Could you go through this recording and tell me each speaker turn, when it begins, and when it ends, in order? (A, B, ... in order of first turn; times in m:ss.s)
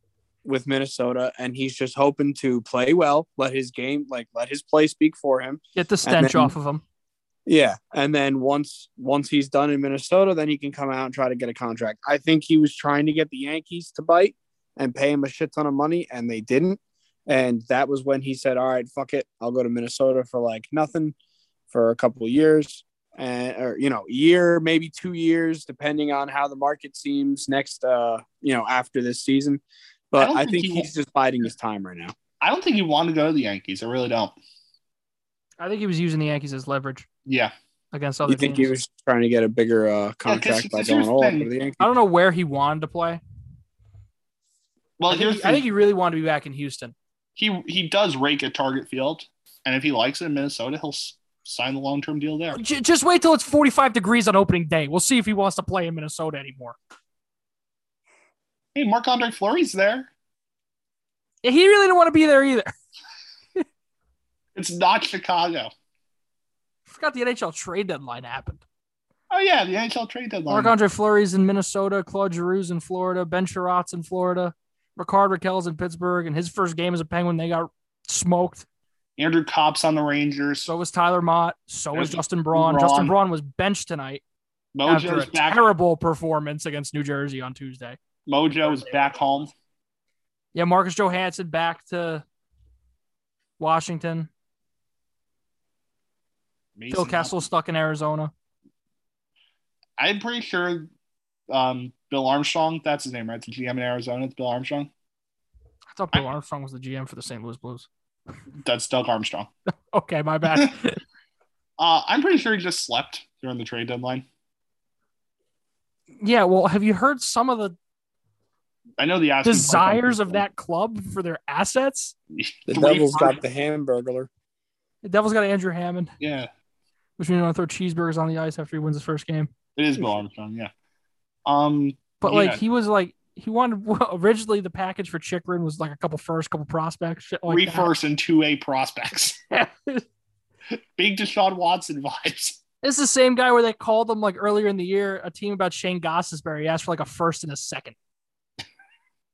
0:00.4-0:06.6 A
0:05.8-0:06.8 B
0:07.5-0:21.2 A
0:21.7-0:32.1 A
0:30.2-0:30.9 C
0:32.4-0:34.4 C
0:35.6-0:37.1 B
0:37.3-0:37.5 C
0:37.9-0:38.7 B
0:38.3-0:41.9 A
0:40.3-0:41.5 C
0:41.8-0:43.2 B
0:45.0-0:45.6 C
0:45.1-0:47.0 B
0:47.4-0:52.6 C
0:52.6-0:56.8 B
0:58.7-1:00.1 C
1:01.4-1:02.7 B
1:04.6-1:05.7 C
1:06.9-1:08.6 B
1:09.3-1:10.7 C
1:10.5-1:18.7 B
1:19.2-1:20.7 C
1:20.7-1:24.2 B
1:21.9-1:23.2 C
1:24.7-1:25.7 C
1:24.9-1:28.0 B
1:28.3-1:29.5 C
1:30.5-1:32.2 B
1:33.6-1:34.3 B
1:36.8-1:37.4 C
1:36.9-1:38.3 B
1:40.0-1:40.9 C
1:41.5-1:44.9 C
1:45.9-1:47.9 B
1:48.6-1:49.5 C
1:49.9-1:51.0 B
1:51.8-1:54.2 C
1:56.2-1:57.7 B
1:59.0-2:00.4 C
1:59.4-2:02.1 B
2:02.3-2:03.4 C
2:02.7-2:04.3 A
2:05.0-2:06.1 B
2:06.2-2:06.5 C
2:07.2-2:09.5 B
2:09.8-2:10.7 C
2:11.4-2:12.6 C
2:12.2-2:17.9 B
2:17.4-2:19.4 C
2:19.5-2:20.0 B
2:21.0-2:22.6 C
2:22.8-2:28.0 B